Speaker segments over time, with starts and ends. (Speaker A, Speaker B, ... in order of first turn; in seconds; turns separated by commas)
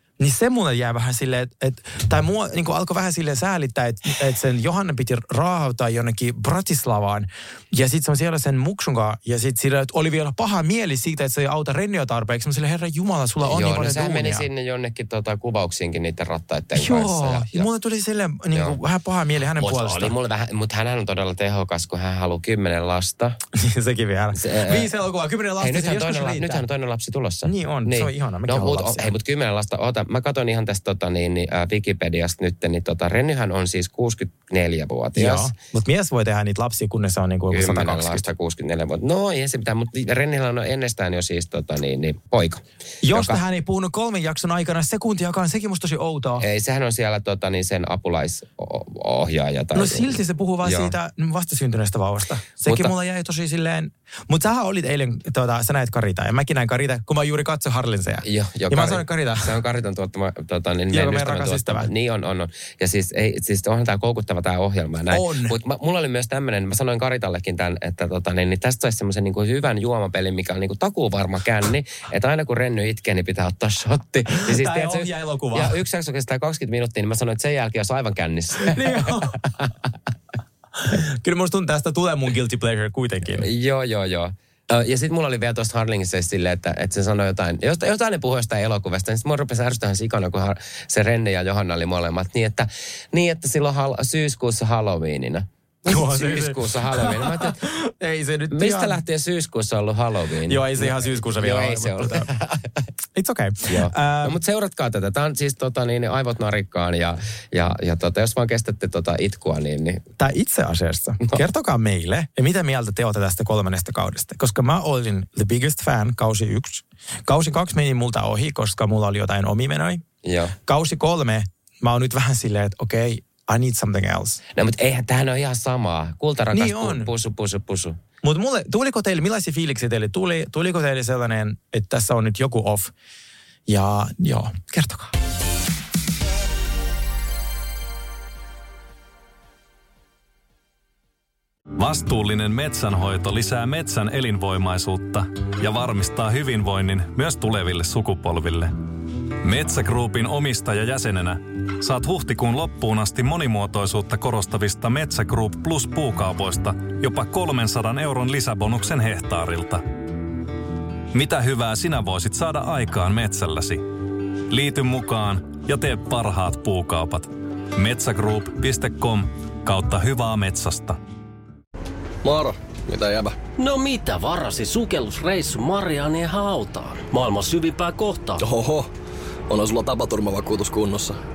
Speaker A: 0.2-14.5, Speaker B: 13.4-17.7, Speaker A: 16.8-20.1, Speaker B: 18.5-18.8, Speaker B: 19.6-23.4, Speaker A: 23.6-26.6, Speaker B: 24.3-24.9, Speaker B: 25.6-35.5, Speaker A: 27.4-29.1, Speaker A: 35.1-38.3, Speaker B: 37.5-43.4, Speaker A: 43.0-46.4, Speaker B: 46.4-50.9, Speaker A: 49.7-59.5, Speaker B: 52.7-52.9, Speaker B: 58.2-79.7, Speaker A: 60.9-61.9, Speaker A: 65.1-65.6, Speaker A: 74.3-75.8, Speaker A: 78.6-79.4, Speaker A: 80.8-83.5, Speaker B: 83.4-97.6, Speaker A: 95.9-99.0, Speaker B: 98.5-102.8, Speaker A: 100.5-102.3, Speaker A: 103.2-104.4, Speaker B: 103.7-110.0, Speaker A: 110.2-120.0, Speaker B: 120.2-120.5, Speaker A: 120.7-124.4, Speaker B: 124.5-128.0, Speaker A: 126.5-127.1, Speaker A: 128.2-132.9, Speaker A: 133.7-135.1, Speaker C: 141.8-148.7, Speaker C: 149.4-159.8, Speaker C: 161.1-163.8, Speaker C: 164.5-171.0, Speaker D: 172.2-173.4, Speaker E: 173.6-178.4, Speaker D: 178.4-178.9, Speaker D: 179.5-181.2